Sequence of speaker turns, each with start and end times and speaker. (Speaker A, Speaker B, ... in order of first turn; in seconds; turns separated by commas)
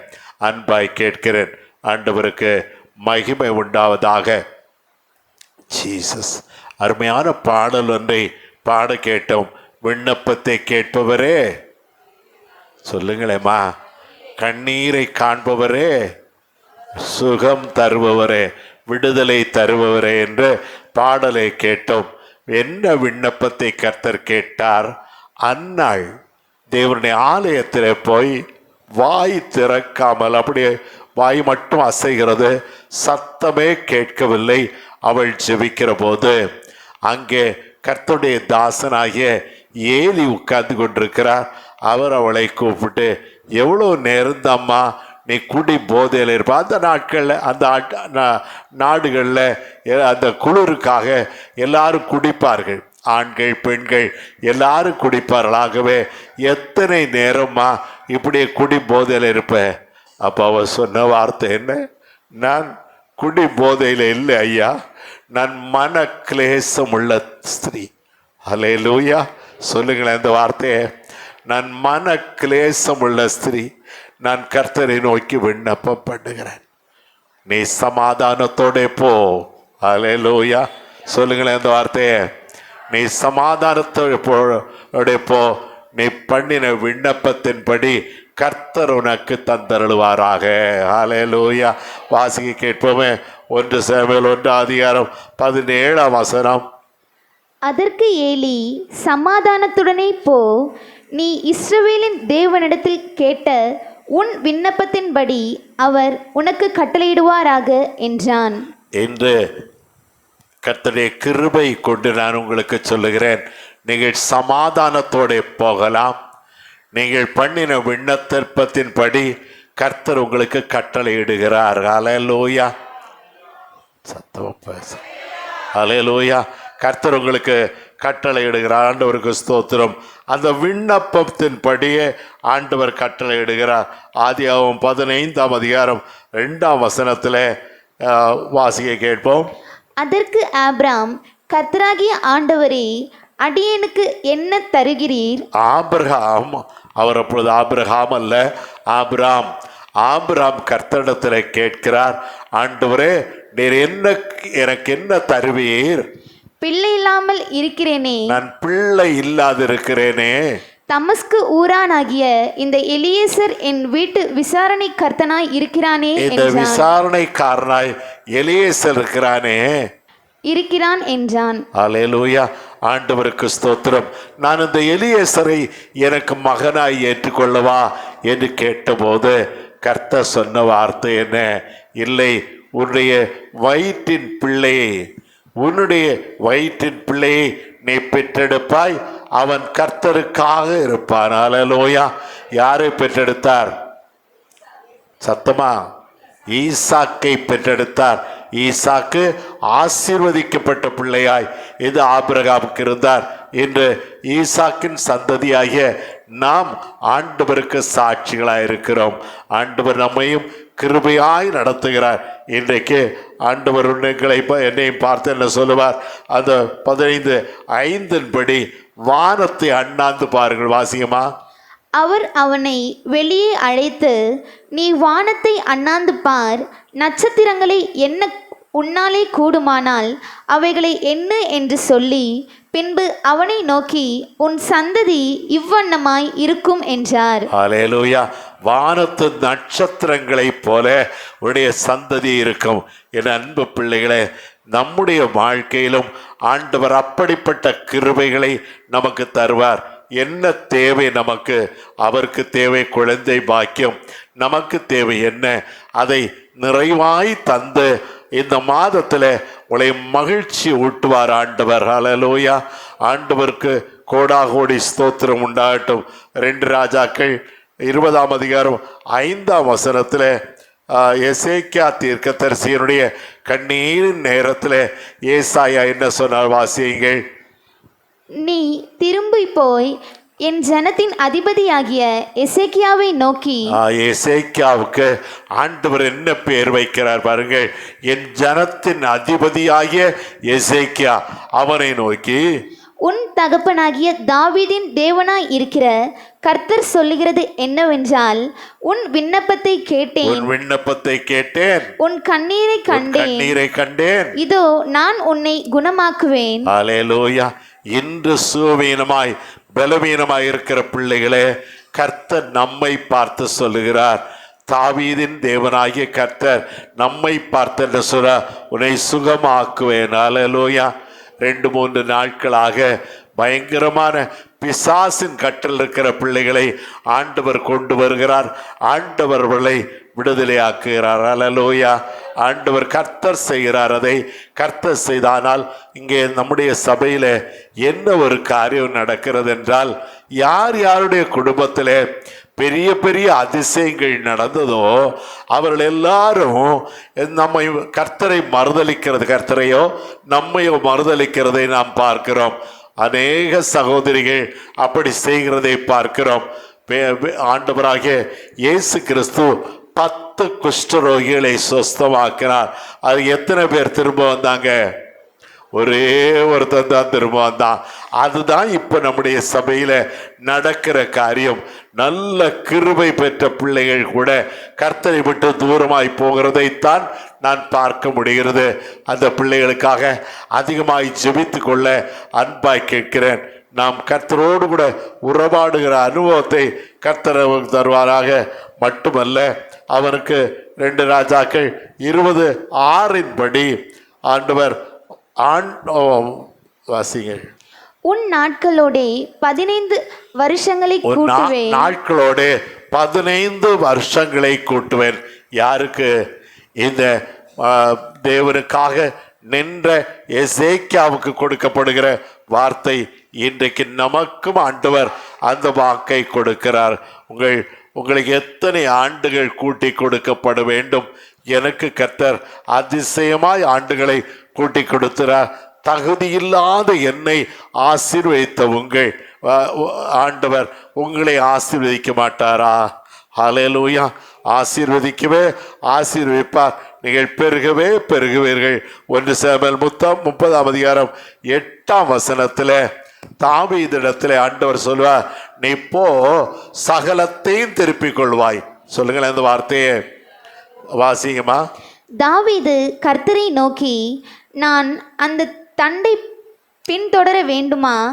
Speaker A: 0.4-2.5, Speaker A: 3.0-4.4, Speaker A: 5.7-11.4, Speaker A: 12.8-13.6, Speaker A: 14.4-15.9, Speaker A: 17.1-24.9, Speaker A: 25.4-26.1, Speaker A: 26.7-28.4, Speaker A: 29.0-36.4, Speaker A: 37.1-39.3, Speaker A: 39.9-59.7, Speaker A: 60.2-61.8, Speaker A: 62.4-64.7, Speaker A: 65.3-67.9, Speaker A: 68.5-70.8, Speaker A: 71.5-73.7, Speaker A: 74.2-76.6, Speaker A: 77.5-82.2, Speaker A: 82.9-96.6, Speaker B: 97.7-100.5, Speaker B: 101.2-103.6, Speaker B: 104.2-108.6, Speaker A: 109.0-109.3, Speaker A: 110.6-116.2, Speaker A: 116.9-122.7, Speaker A: 124.0-125.0, Speaker A: 125.7-137.5, Speaker A: 138.1-139.5, Speaker B: 140.0-142.9, Speaker B: 143.4-145.4, Speaker A: 145.6-149.5, Speaker A: 150.0-156.1, Speaker B: 156.6-158.3, Speaker A: 158.3-160.4, Speaker B: 160.9-166.8, Speaker A: 166.2-169.8, Speaker B: 170.5-171.6, Speaker A: 171.8-185.1, Speaker A: 185.6-193.8, Speaker A: 195.2-195.8, Speaker A: 196.5-221.3, Speaker B: 222.0-224.2, Speaker B: 224.8-237.5, Speaker A: 237.5-270.3, Speaker A: 270.9-277.2, Speaker B: 278.4-279.9, Speaker B: 280.4-283.7, Speaker A: 283.7-292.4, Speaker B: 293.1-295.9, Speaker B: 296.4-300.5, Speaker A: 300.2-301.9, Speaker B: 302.0-303.5, Speaker A: 302.9-304.3, Speaker B: 304.4-306.7, Speaker A: 306.7-320.9, Speaker A: 321.4-342.0, Speaker A: 342.6-364.8, Speaker A: 365.7-393.7, Speaker A: 394.3-394.7, Speaker A: 395.4-397.5, Speaker B: 398.1-401.9, Speaker A: 401.1-406.1, Speaker A: 406.8-442.8, Speaker A: 443.4-450.0, Speaker A: 451.0-451.6, Speaker B: 452.2-454.0, Speaker B: 454.6-456.2, Speaker B: 456.9-458.0